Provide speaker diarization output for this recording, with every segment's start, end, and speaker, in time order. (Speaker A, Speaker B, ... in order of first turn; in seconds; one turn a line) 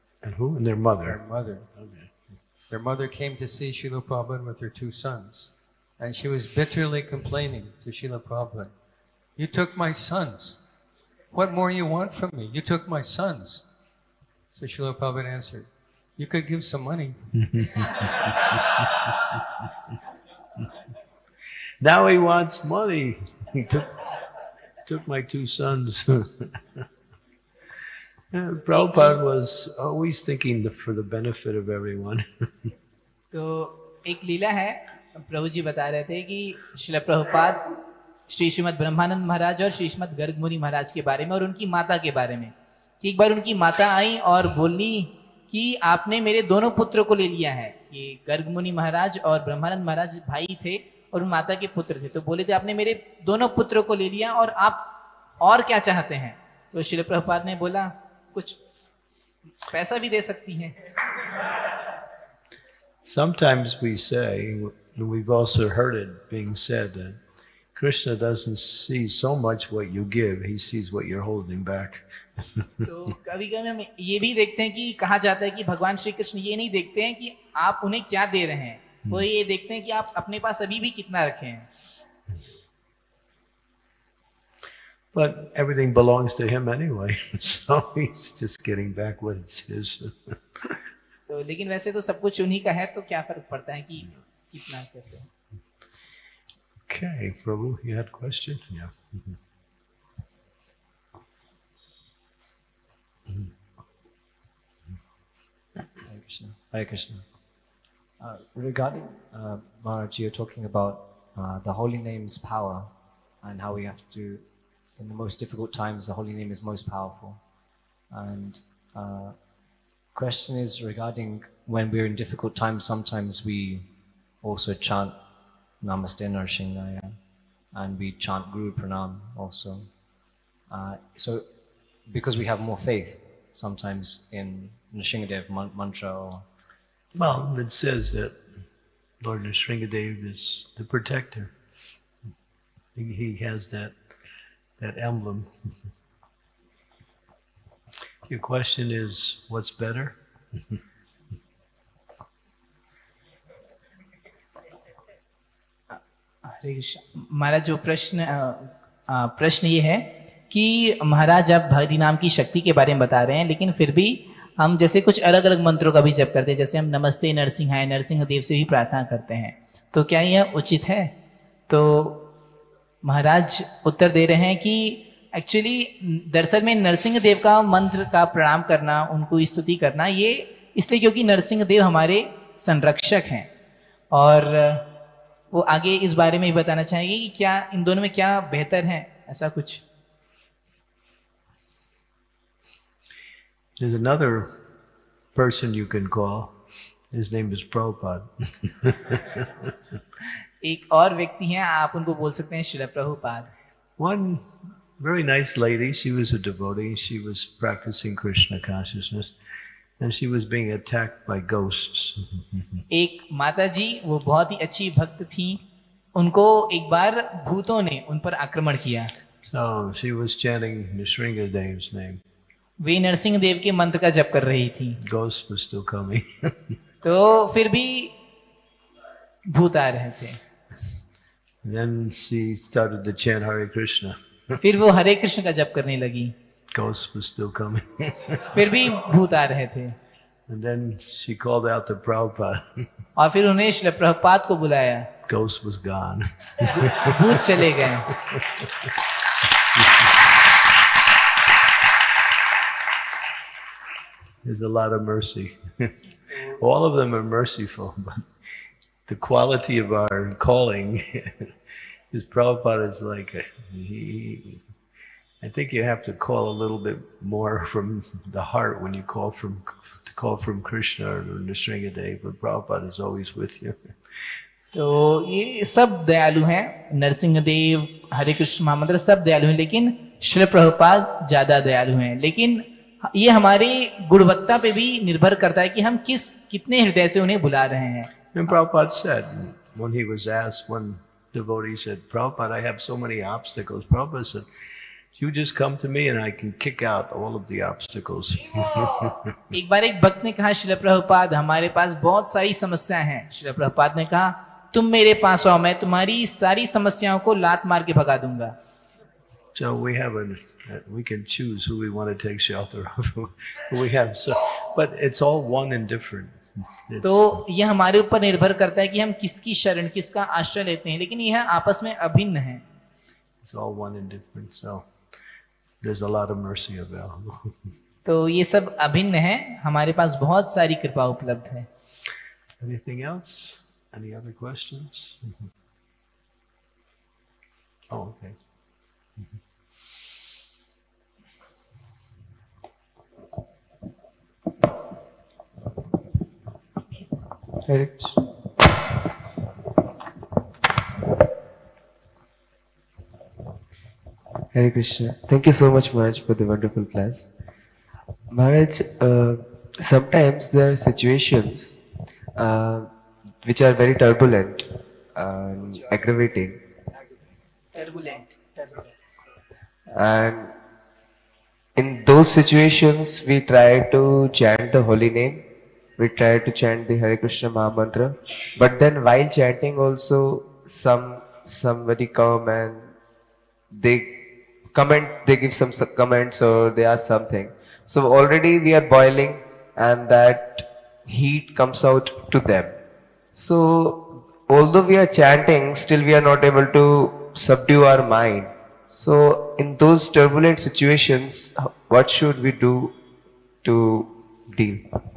Speaker A: 0.2-1.2
Speaker B: 1.1-1.7
Speaker A: 1.8-2.1
Speaker B: 2.7-8.7
Speaker B: 9.4-10.6
Speaker B: 11.3-13.7
Speaker B: 14.5-17.3
Speaker A: 17.3-18.9
Speaker A: 21.8-24.1
Speaker A: 24.8-26.8
Speaker A: 28.3-32.7
Speaker C: 28.7-29.2
Speaker C: 33.3-37.7
Speaker C: 38.3-58.6
Speaker C: 59.7-60.8
Speaker A: 63.0-67.2
Speaker A: 67.8-72.9
Speaker C: 72.8-81.7
Speaker A: 85.1-90.8
Speaker C: 91.3-95.3
Speaker A: 96.9-99.4
Speaker D: 106.0-107.3
Speaker D: 108.2-117.4
Speaker D: 118.1-119.4
Speaker D: 120.1-123.9
Speaker D: 124.4-125.2
Speaker D: 125.8-127.2
Speaker D: 127.7-130.0
Speaker D: 130.7-131.5
Speaker D: 132.1-136.5
Speaker A: 137.2-138.4
Speaker A: 139.2-141.5
Speaker A: 142.9-144.0
Speaker A: 144.8-145.7
Speaker A: 148.3-150.8
Speaker C: 155.9-171.1
Speaker C: 171.7-172.3
Speaker C: 173.0-183.5
Speaker C: 184.1-184.9
Speaker C: 185.5-189.8
Speaker A: 193.8-194.6
Speaker A: 195.3-196.6
Speaker A: 197.1-199.8
Speaker C: 200.6-203.5
Speaker A: 204.0-209.4
Speaker A: 210.0-212.8
Speaker C: 212.9-215.6
Speaker C: 216.2-219.1
Speaker A: 219.4-222.2
Speaker C: 222.8-225.0
Speaker A: 225.0-226.8
Speaker C: 227.0-228.2
Speaker C: 229.5-230.4
Speaker A: 231.6-234.6
Speaker C: 234.6-236.3
Speaker A: 236.7-238.7
Speaker C: 238.5-240.0
Speaker A: 240.5-242.9
Speaker C: 243.2-245.1
Speaker A: 245.3-249.0
Speaker C: 246.7-248.1
Speaker A: 249.7-250.1
Speaker A: 254.4-258.3
Speaker A: 259.1-261.5
Speaker A: 262.1-264.6
Speaker A: 265.4-274.4
Speaker C: 274.7-288.1
Speaker A: 288.3-294.5
Speaker A: 295.1-299.4
Speaker C: 299.5-308.6
Speaker A: 309.6-317.4
Speaker C: 317.0-322.6
Speaker A: 323.4-324.9
Speaker A: 325.8-327.7
Speaker C: 328.1-331.7
Speaker A: 332.6-335.5
Speaker A: 337.9-338.4
Speaker E: 347.7-348.2
Speaker E: 354.5-357.3
Speaker E: 358.3-361.8
Speaker E: 362.4-362.9
Speaker E: 363.4-366.6
Speaker C: 367.8-368.9
Speaker E: 369.9-370.6
Speaker E: 371.8-375.4
Speaker E: 376.0-382.9
Speaker E: 383.7-384.2
Speaker E: 384.7-392.8
Speaker E: 393.4-403.0
Speaker E: 403.6-404.9